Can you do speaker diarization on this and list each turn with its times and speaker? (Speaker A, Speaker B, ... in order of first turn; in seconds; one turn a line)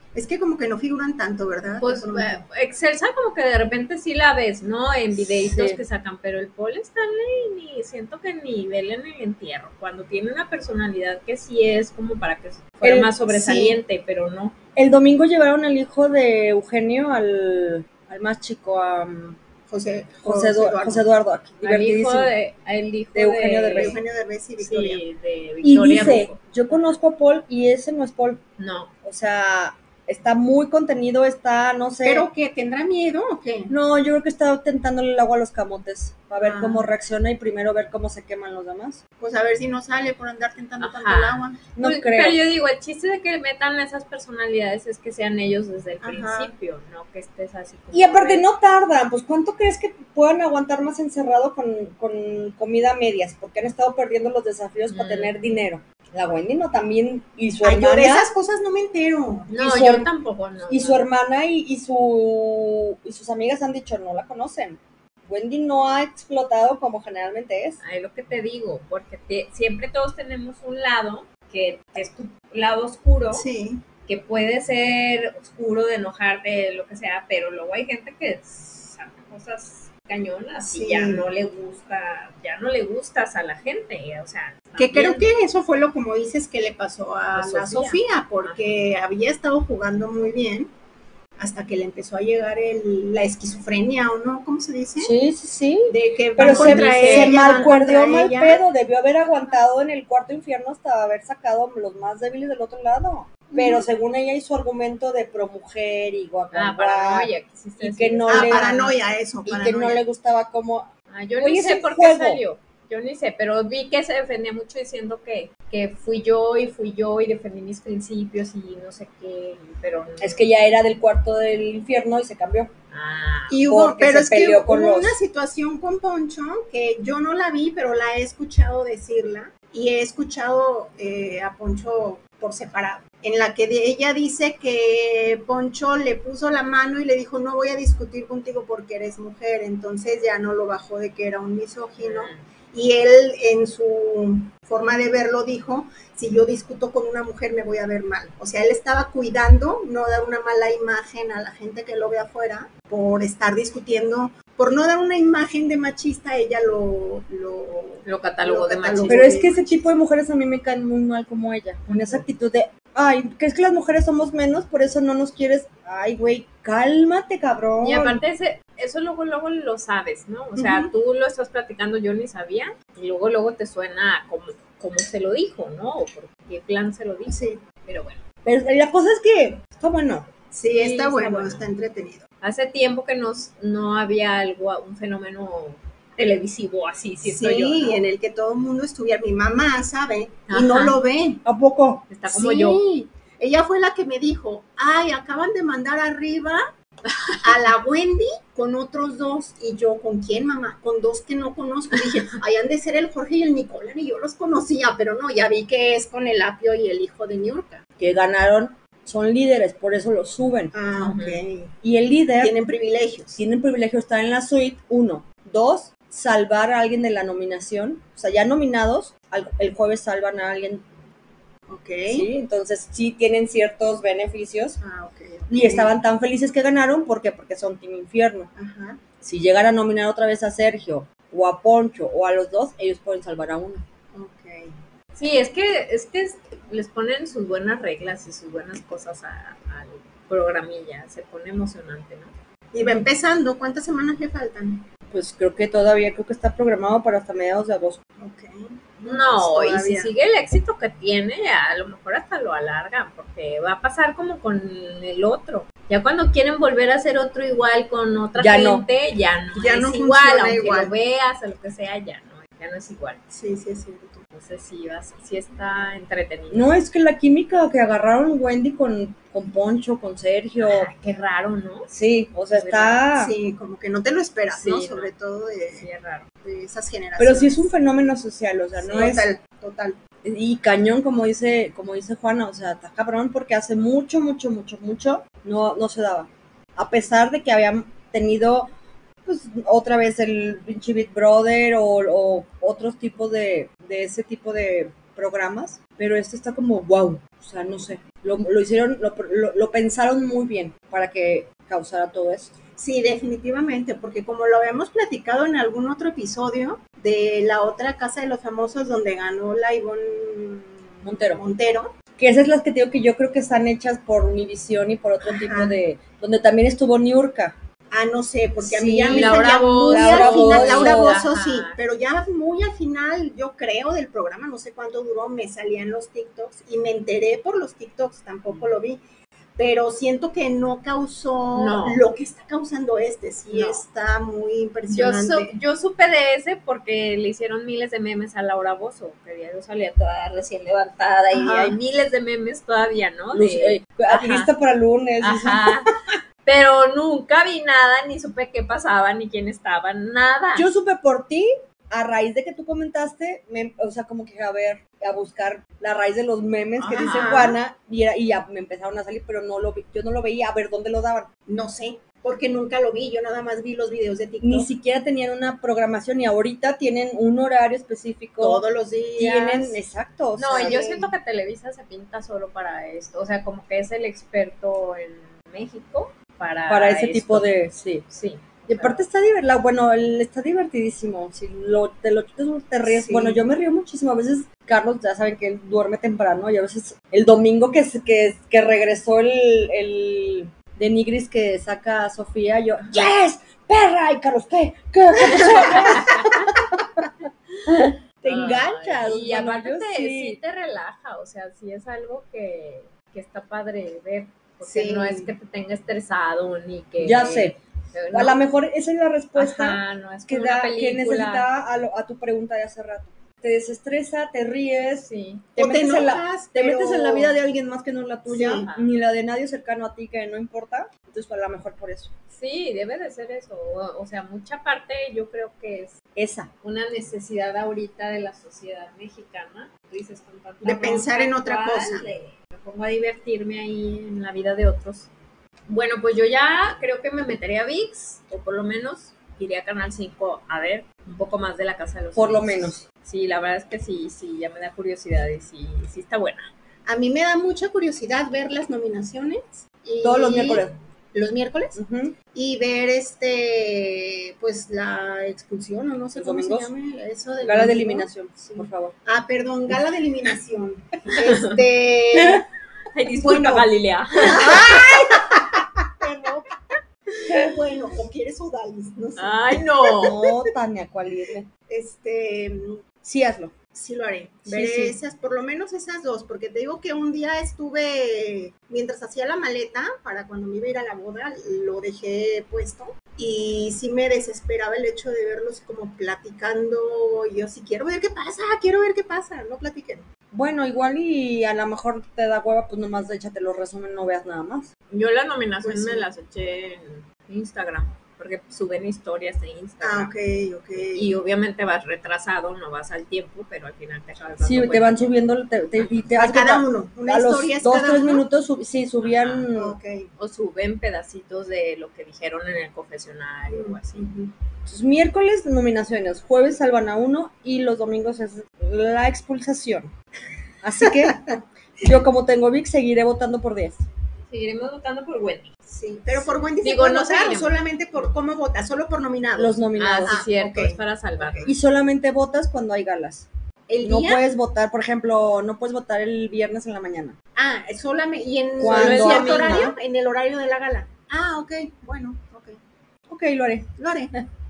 Speaker A: 0.1-2.4
Speaker B: 1.8-14.6
Speaker C: 5.2-5.8
Speaker C: 12.8-13.1
Speaker A: 13.3-13.8
Speaker C: 14.8-19.4
Speaker A: 19.7-21.1
Speaker C: 20.2-22.3
Speaker B: 21.6-24.0
Speaker C: 23.1-24.0
Speaker A: 23.8-25.0
Speaker B: 24.6-26.9
Speaker C: 25.6-28.4
Speaker B: 28.6-28.9
Speaker C: 29.0-32.3
Speaker A: 32.0-33.7
Speaker C: 33.7-39.0
Speaker A: 36.4-36.9
Speaker A: 39.2-41.6
Speaker B: 40.8-48.4
Speaker C: 41.8-42.4
Speaker A: 46.0-46.5
Speaker C: 47.9-58.3
Speaker B: 54.9-55.6
Speaker A: 57.6-59.5
Speaker B: 59.5-61.0
Speaker C: 59.6-60.1
Speaker C: 60.7-67.8
Speaker B: 67.8-73.5
Speaker A: 73.3-73.8
Speaker B: 74.0-85.3
Speaker A: 80.6-81.3
Speaker A: 84.8-90.7
Speaker B: 87.3-88.8
Speaker A: 91.4-95.1
Speaker C: 95.0-108.8
Speaker A: 95.9-98.6
Speaker B: 96.4-97.7
Speaker A: 103.5-103.9
Speaker B: 106.5-109.0
Speaker A: 108.3-110.0
Speaker C: 109.4-112.4
Speaker B: 111.1-120.4
Speaker C: 120.2-122.7
Speaker B: 122.9-123.6
Speaker A: 123.5-159.9
Speaker C: 123.7-125.2
Speaker B: 142.0-142.4
Speaker B: 158.0-159.3
Speaker C: 159.1-168.2
Speaker B: 161.9-162.2
Speaker B: 167.8-178.2
Speaker A: 170.6-170.9
Speaker A: 177.3-177.6
Speaker C: 178.4-180.3
Speaker A: 180.5-182.2
Speaker B: 180.7-181.7
Speaker B: 182.4-188.1
Speaker A: 187.2-191.4
Speaker B: 190.5-191.0
Speaker C: 191.4-192.0
Speaker B: 192.1-192.8
Speaker A: 192.3-196.7
Speaker B: 197.1-197.4
Speaker A: 197.4-207.8
Speaker C: 208.0-210.7
Speaker A: 210.7-211.7
Speaker B: 211.0-211.4
Speaker C: 211.8-212.5
Speaker A: 212.4-213.4
Speaker C: 213.3-220.8
Speaker A: 221.7-222.3
Speaker C: 222.1-224.8
Speaker A: 224.8-226.0
Speaker C: 225.5-228.5
Speaker A: 228.6-229.0
Speaker C: 229.2-233.8
Speaker A: 234.1-234.7
Speaker B: 235.1-242.3
Speaker A: 242.7-244.8
Speaker C: 245.1-248.0
Speaker A: 248.2-250.1
Speaker B: 249.0-263.2
Speaker C: 258.4-258.8
Speaker A: 259.5-260.9
Speaker A: 263.3-264.2
Speaker B: 264.3-266.7
Speaker C: 266.5-270.9
Speaker B: 270.6-271.9
Speaker C: 271.9-273.3
Speaker B: 272.5-273.0
Speaker A: 273.1-275.9
Speaker B: 274.5-275.1
Speaker B: 275.7-276.2
Speaker A: 276.4-277.7
Speaker C: 277.2-279.3
Speaker A: 278.8-280.0
Speaker C: 280.2-288.7
Speaker C: 289.2-302.5
Speaker A: 302.8-311.9
Speaker C: 311.0-311.4
Speaker C: 312.1-317.6
Speaker A: 315.2-315.8
Speaker A: 317.9-329.0
Speaker C: 318.6-321.2
Speaker B: 319.1-321.8
Speaker A: 329.6-335.5
Speaker B: 331.5-332.0
Speaker B: 333.5-333.8
Speaker B: 334.9-344.5
Speaker A: 341.3-341.8
Speaker C: 343.3-345.8
Speaker B: 345.2-345.9
Speaker B: 346.4-350.7
Speaker C: 350.6-361.3
Speaker B: 356.8-357.4
Speaker A: 356.9-357.6
Speaker A: 361.5-364.7
Speaker C: 364.4-368.6
Speaker A: 368.4-369.8
Speaker C: 369.2-370.9
Speaker B: 370.4-377.5
Speaker A: 370.5-371.1
Speaker C: 376.7-378.1
Speaker B: 378.1-379.1
Speaker C: 378.7-397.1
Speaker A: 382.8-383.4
Speaker A: 395.4-395.7
Speaker B: 395.5-396.4
Speaker C: 397.6-400.4
Speaker B: 398.2-408.4
Speaker A: 404.6-405.3
Speaker C: 407.0-407.6
Speaker C: 408.1-422.1
Speaker B: 409.3-411.5
Speaker B: 414.9-415.5
Speaker A: 415.6-417.4
Speaker A: 418.3-418.7
Speaker B: 418.5-418.9
Speaker B: 422.3-425.9
Speaker C: 426.1-426.5
Speaker B: 426.6-435.1
Speaker A: 430.6-432.1
Speaker B: 435.7-446.5
Speaker C: 442.1-442.9
Speaker A: 446.9-451.8
Speaker C: 450.0-450.7
Speaker C: 451.7-452.1
Speaker A: 452.3-462.4
Speaker C: 456.1-456.7
Speaker C: 457.4-458.9
Speaker B: 461.2-461.6
Speaker B: 462.9-464.6
Speaker A: 463.2-463.7
Speaker A: 464.2-465.7
Speaker C: 466.0-466.4
Speaker A: 467.2-470.3
Speaker B: 469.2-470.1
Speaker C: 470.0-471.5
Speaker A: 471.7-472.8
Speaker C: 473.0-473.5
Speaker A: 473.7-490.1
Speaker C: 474.4-475.0
Speaker C: 490.3-494.7
Speaker B: 494.9-500.1
Speaker A: 495.6-496.1
Speaker A: 499.8-501.1
Speaker B: 500.8-505.1
Speaker C: 504.4-509.8
Speaker A: 506.2-508.2
Speaker B: 509.0-509.5
Speaker A: 509.5-510.1
Speaker B: 510.2-514.1
Speaker A: 513.5-514.3
Speaker C: 514.6-519.9
Speaker C: 520.6-521.2
Speaker A: 520.8-521.4
Speaker C: 521.8-523.8
Speaker B: 524.3-525.5
Speaker A: 525.7-531.5
Speaker B: 526.1-527.6
Speaker C: 529.4-530.2
Speaker B: 529.8-531.5
Speaker C: 531.4-533.3
Speaker A: 533.7-534.2
Speaker C: 533.8-537.1
Speaker A: 537.4-542.6
Speaker C: 538.6-539.7
Speaker B: 538.6-539.7
Speaker C: 543.1-543.7
Speaker A: 543.8-544.1